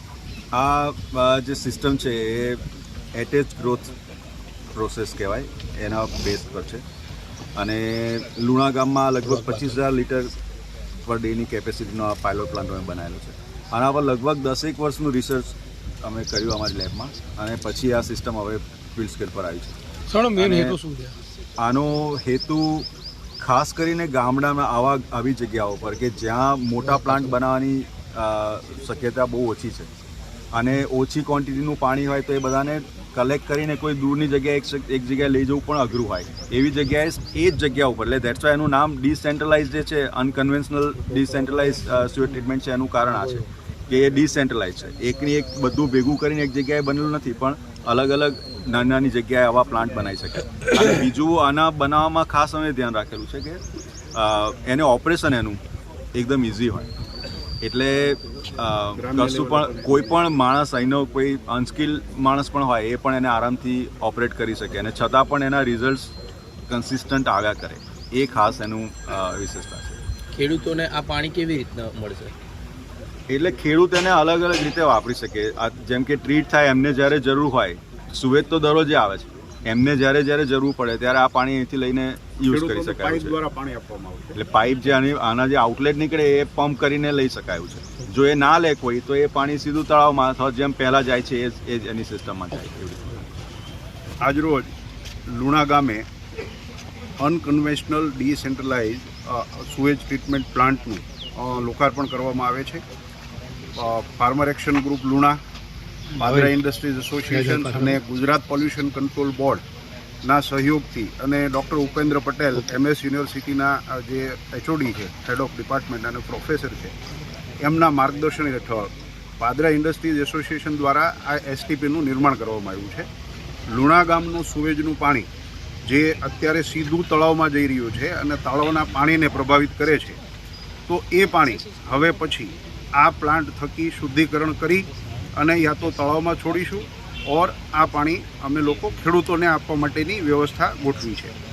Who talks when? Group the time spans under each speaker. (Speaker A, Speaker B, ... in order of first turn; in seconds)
Speaker A: 0.5-2.6, 3.1-3.9, 4.7-6.8, 7.5-10.3, 11.0-19.7, 20.3-20.8, 21.6-22.9, 23.4-29.9, 30.5-53.6, 54.1-55.6, 56.1-56.9, 57.6-66.1, 66.7-70.0, 73.3-83.3, 84.4-93.3
Speaker B: 9.4-9.7, 20.1-21.1, 106.2-106.6, 107.3-108.0
Speaker C: 59.0-60.2, 82.5-84.4, 94.2-94.7, 95.3-96.0, 97.2-102.8, 103.8-105.4, 106.2-109.6, 110.2-116.9, 117.6-123.1, 123.7-125.3, 125.8-130.2, 130.9-141.3
Speaker D: 70.3-72.3